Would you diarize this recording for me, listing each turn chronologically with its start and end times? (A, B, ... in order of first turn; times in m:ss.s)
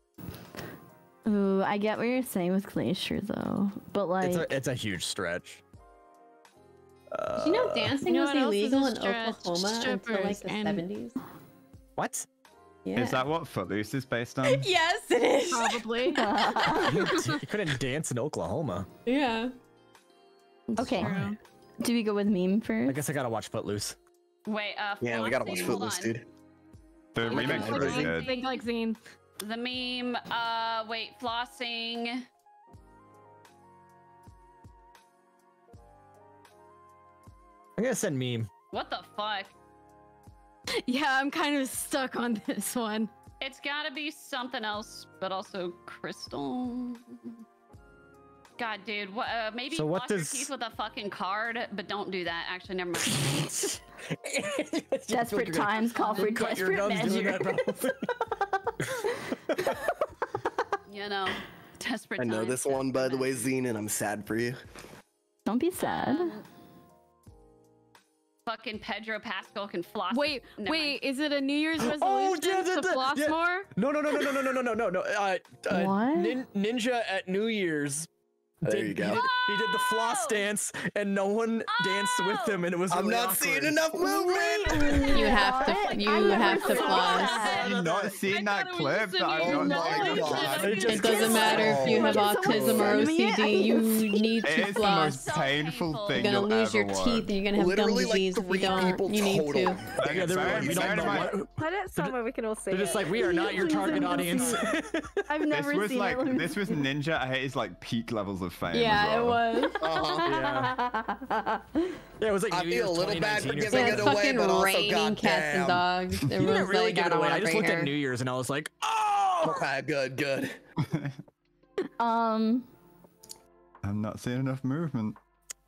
0:01.3-0:04.5 A
0:04.2-0:05.6 B
0:07.1-0:08.0 B
0:07.4-0:11.2 C
0:08.0-0:10.8 D
0:12.0-0:12.3 B
0:12.8-0:13.3 C
0:13.0-0:14.7 E
0:14.4-0:16.2 C
0:15.5-0:17.4 D
0:16.1-0:17.1 A
0:16.7-0:18.9 B
0:19.1-0:19.5 C
0:20.8-0:23.0 A
0:20.8-0:21.4 D
0:22.9-0:24.0 B
0:24.5-0:26.2 F
0:25.0-0:26.3 G
0:27.1-0:28.3 E
0:27.2-0:28.7 F
0:27.3-0:29.0 D
0:27.4-0:28.1 G
0:29.4-0:32.2 F
0:37.8-0:38.5 B
0:38.7-0:39.5 F
0:40.8-0:43.1 D
0:43.4-0:47.3 F
0:48.6-0:53.5 F
0:49.7-0:50.5 B
0:53.1-0:58.1 B
0:55.1-0:57.7 A
0:56.1-0:56.4 F
1:00.9-1:03.5 F
1:02.2-1:04.6 G
1:05.5-1:06.4 A
1:05.8-1:06.4 F
1:08.5-1:11.0 F
1:10.1-1:13.7 D
1:11.8-1:18.1 B
1:15.7-1:16.4 A
1:18.6-1:19.2 G
1:18.6-1:23.8 B
1:19.1-1:20.5 F
1:21.7-1:22.8 F
1:22.9-1:25.2 G
1:23.9-1:27.7 A
1:24.9-1:27.5 C
1:26.1-1:31.6 D
1:26.6-1:28.3 B
1:27.6-1:30.8 E
1:29.4-1:33.1 G
1:30.1-1:32.9 B
1:30.8-1:35.3 C
1:31.0-1:34.4 A
1:34.4-1:37.4 E
1:34.8-1:36.4 F
1:36.2-1:39.9 C
1:37.5-1:41.3 G
1:40.0-1:41.4 E
1:40.0-1:42.2 B
1:41.4-1:44.7 H
1:42.7-1:45.3 B
1:43.5-1:44.7 A
1:45.3-1:46.9 A
1:45.5-1:49.4 E
1:48.7-1:50.0 C
1:49.6-1:51.7 A
1:49.8-1:50.3 G
1:50.2-1:50.8 B
1:52.2-1:54.3 B
1:52.5-1:55.9 G
1:53.7-1:57.9 C
1:56.3-1:59.7 B
1:59.4-2:00.6 G
2:00.8-2:01.2 E
2:02.0-2:02.7 A
2:03.8-2:05.2 E